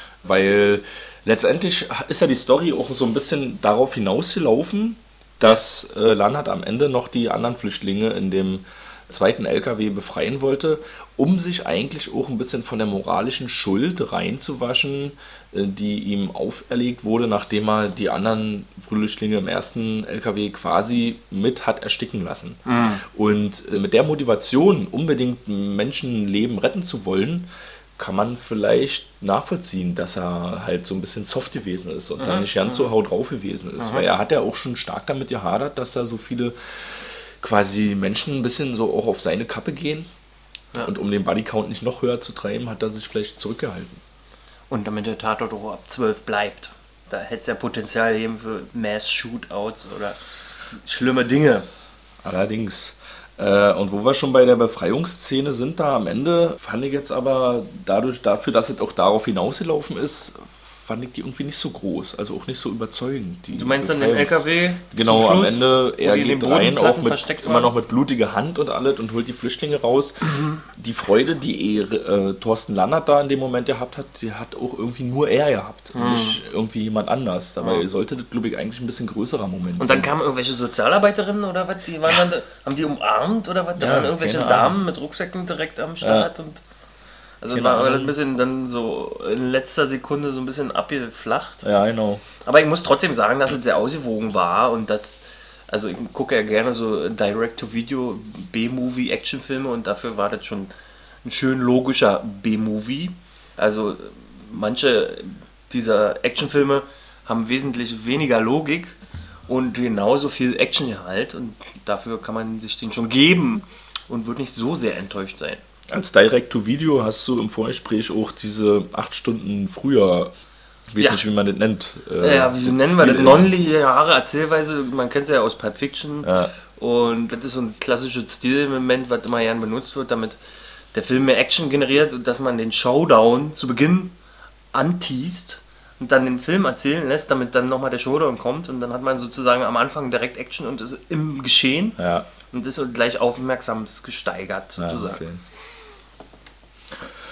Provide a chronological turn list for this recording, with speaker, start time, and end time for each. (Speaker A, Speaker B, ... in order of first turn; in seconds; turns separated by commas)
Speaker A: 0.2-40.1, Speaker B: 22.7-23.0, Speaker B: 32.2-32.9, Speaker B: 33.8-34.1, Speaker A: 40.8-44.0, Speaker B: 44.7-50.2, Speaker B: 50.7-51.7, Speaker A: 52.2-80.1, Speaker B: 63.5-67.7, Speaker B: 75.9-76.4, Speaker B: 79.8-86.6, Speaker A: 83.8-84.8, Speaker A: 86.0-86.3, Speaker B: 87.4-91.7, Speaker A: 87.5-88.2, Speaker A: 91.6-92.2, Speaker B: 92.4-100.7, Speaker B: 101.2-115.6, Speaker A: 115.9-120.3, Speaker A: 120.9-123.5, Speaker B: 122.2-130.4, Speaker A: 126.2-126.5, Speaker B: 130.9-134.2, Speaker B: 134.7-142.0, Speaker A: 142.0-142.3, Speaker B: 142.5-145.2, Speaker A: 144.8-145.4